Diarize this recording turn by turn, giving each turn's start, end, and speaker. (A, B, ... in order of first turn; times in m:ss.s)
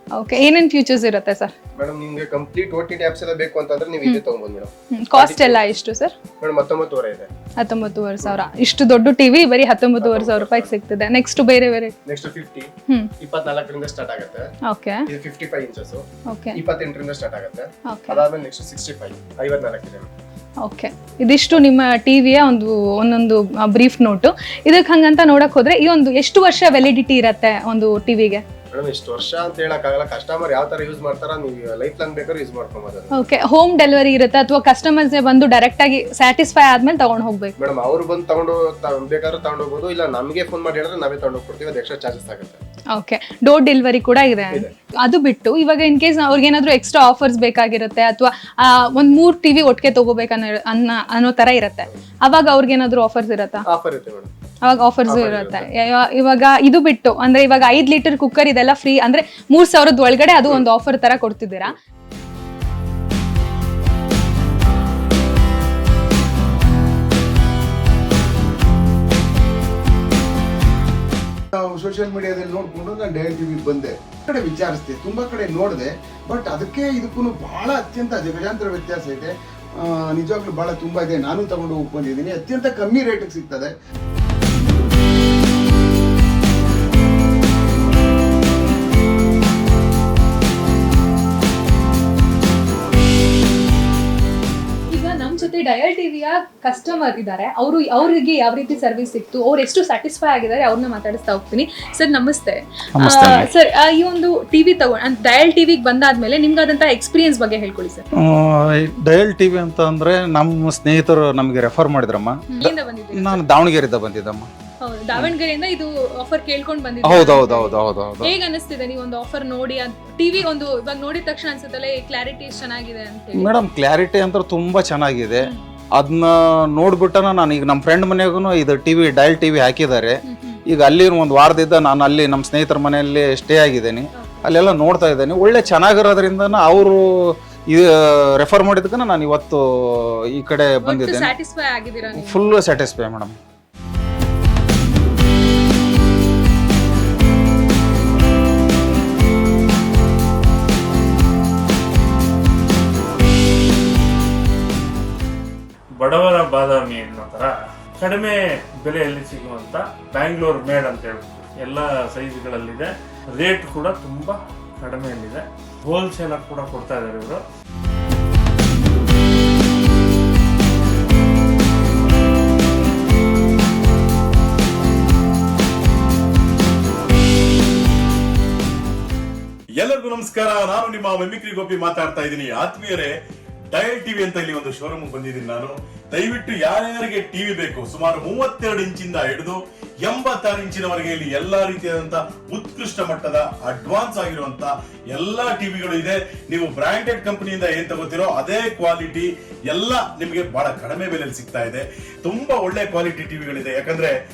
0:00.1-0:01.5 A
0:01.8-0:05.7 B
0:05.0-0:06.1 A
0:06.4-0:07.3 B
0:07.6-0:12.0 A
0:10.0-0:10.7 B
0:12.0-0:14.5 B
0:14.7-0:15.0 A
0:15.1-0:20.1 B
0:16.3-0:16.6 A
0:17.9-0:18.2 A
0:20.6-0:28.4 A
0:28.7-0:33.2 B
0:33.1-0:37.5 A
0:37.6-0:42.6 B
0:42.9-0:53.6 A
0:53.7-0:54.3 B
0:54.6-1:01.7 A
0:55.1-0:55.7 B
1:11.5-1:23.7 C
1:34.9-1:48.0 A
1:43.0-1:43.5 D
1:48.2-1:54.5 D
1:52.5-1:53.4 A
1:54.8-2:03.6 A
1:57.0-1:58.3 D
2:03.4-2:21.3 D
2:10.2-2:10.6 A
2:14.2-2:14.5 A
2:20.8-2:22.5 A
2:22.1-2:23.3 D
2:35.9-2:47.4 E
2:59.8-3:03.1 F
3:03.7-3:24.1 F